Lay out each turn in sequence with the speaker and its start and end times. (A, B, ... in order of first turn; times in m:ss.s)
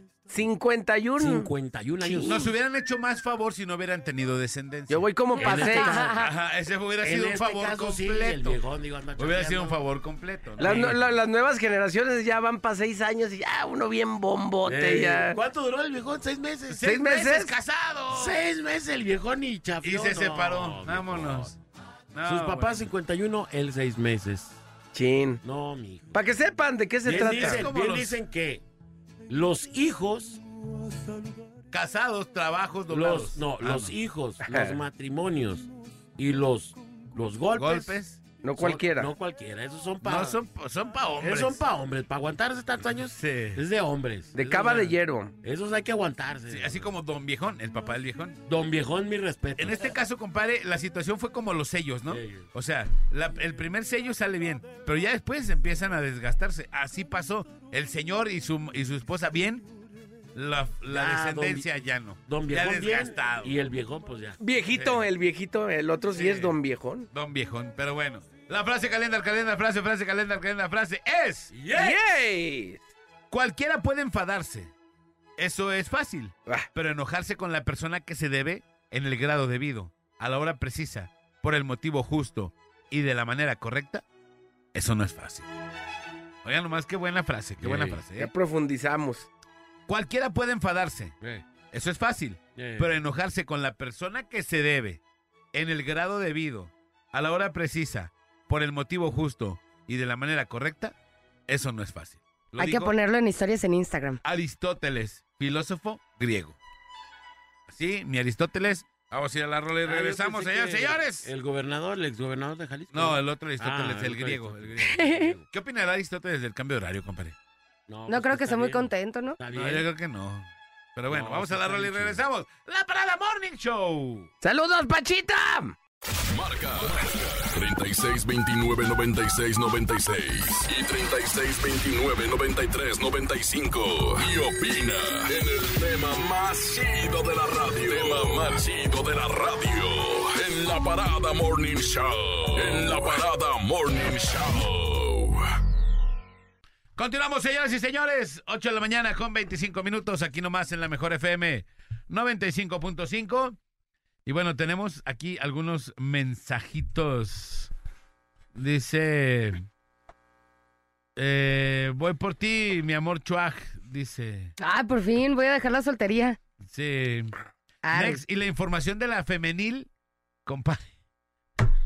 0:00.3-0:01.5 A
0:01.2-0:02.5 B
0:02.0-0:02.3 A
0:02.2-0:08.6 C
0:04.9-0:05.9 A
0:05.4-0:06.3 B
0:05.4-0:06.3 D
0:07.0-0:09.8 B
0:09.2-0:11.0 C
0:10.6-0:15.4 A
0:14.6-0:17.0 B
0:16.7-0:18.4 C
0:16.8-0:17.5 A
0:18.1-0:21.6 B
0:19.8-0:21.6 C
0:22.1-0:22.9 C
0:22.3-0:24.6 B
0:24.9-0:25.4 A
0:25.4-0:26.2 B
0:26.1-0:27.7 A
0:27.0-0:28.6 B
0:27.2-0:28.2 C
0:29.3-0:30.4 B
0:31.7-0:34.0 C
0:32.9-0:38.0 B
0:34.5-0:34.8 A
0:37.6-0:38.2 C
0:38.4-0:39.1 A
0:38.6-0:40.4 B
0:40.0-0:41.6 C
0:41.2-0:46.9 B
0:43.0-0:43.6 C
0:44.3-0:45.3 A
0:46.5-0:48.4 C
0:48.5-0:49.9 B
0:49.6-0:59.6 C
0:52.1-0:52.5 B
1:00.4-1:03.6 C
1:00.9-1:01.7 B
1:02.3-1:04.4 B
1:04.4-1:07.1 A
1:04.7-1:05.1 C
1:06.1-1:06.6 C
1:07.1-1:11.5 C
1:11.5-1:12.0 B
1:11.7-1:12.8 A
1:13.3-1:14.7 C
1:15.4-1:24.0 C
1:24.7-1:25.4 C
1:26.4-1:28.3 C
1:27.6-1:28.0 B
1:28.2-1:29.3 A
1:29.9-1:31.1 C
1:31.7-1:35.0 C
1:32.6-1:32.9 B
1:35.5-1:40.9 C
1:41.5-1:42.9 C
1:42.6-1:44.2 D
1:44.2-1:46.6 C
1:47.7-1:51.3 C
1:49.8-1:55.4 B
1:52.9-1:57.4 C
1:55.0-1:55.3 D
1:57.9-1:59.9 B
1:58.1-1:59.4 D
1:59.5-2:04.3 C
2:01.1-2:02.2 B
2:04.4-2:05.8 A
2:06.3-2:25.5 E
2:27.0-2:33.6 C
2:34.2-2:37.7 C
2:38.6-2:39.7 C
2:41.2-2:44.5 C
2:44.6-2:46.4 D
2:46.7-2:47.4 C
2:47.8-2:48.2 D
2:47.9-2:49.9 C
2:50.5-2:50.8 C